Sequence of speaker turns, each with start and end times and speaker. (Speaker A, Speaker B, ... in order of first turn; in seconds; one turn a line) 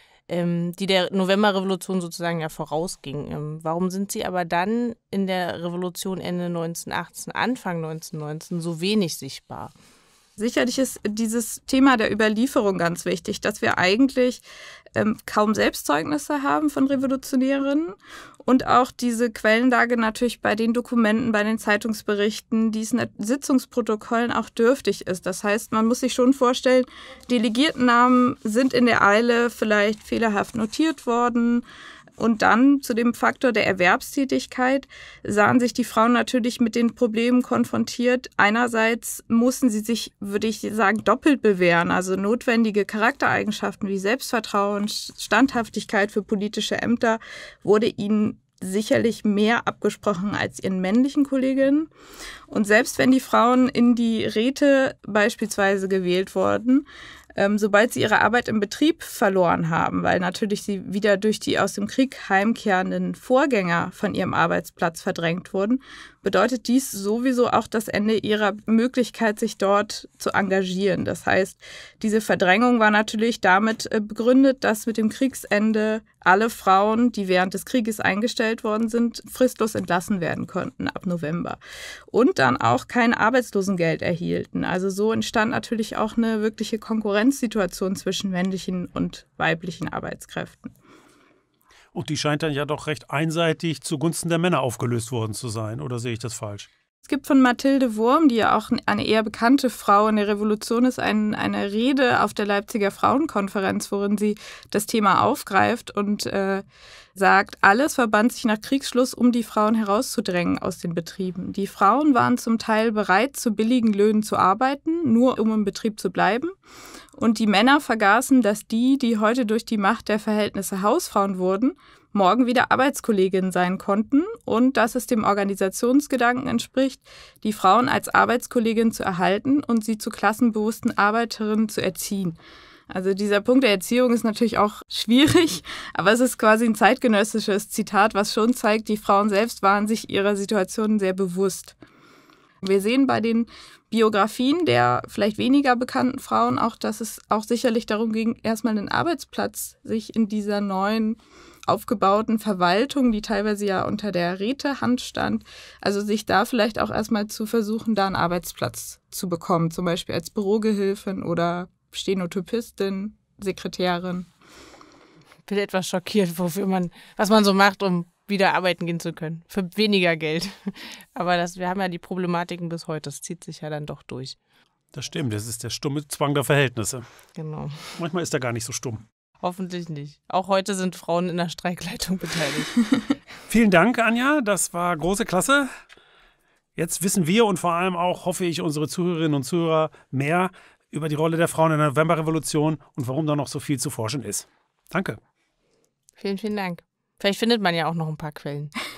Speaker A: 0.3-9.7
Speaker B: 10.4-14.4
Speaker B: 14.9-31.6
Speaker B: 32.2-51.9
Speaker B: 52.5-56.9
Speaker B: 57.4-81.6
Speaker B: 82.1-90.7
Speaker C: 91.9-96.7
Speaker B: 97.0-106.7
Speaker B: 107.2-116.5
Speaker B: 117.2-132.4
Speaker B: 132.9-141.8
Speaker B: 142.6-164.3
Speaker A: 165.5-174.4
Speaker C: 174.9-177.1
Speaker A: 177.4-177.8
Speaker C: 177.9-179.0
Speaker A: 179.4-182.8
Speaker C: 183.5-185.7
Speaker C: 186.8-195.2
Speaker A: 196.2-198.7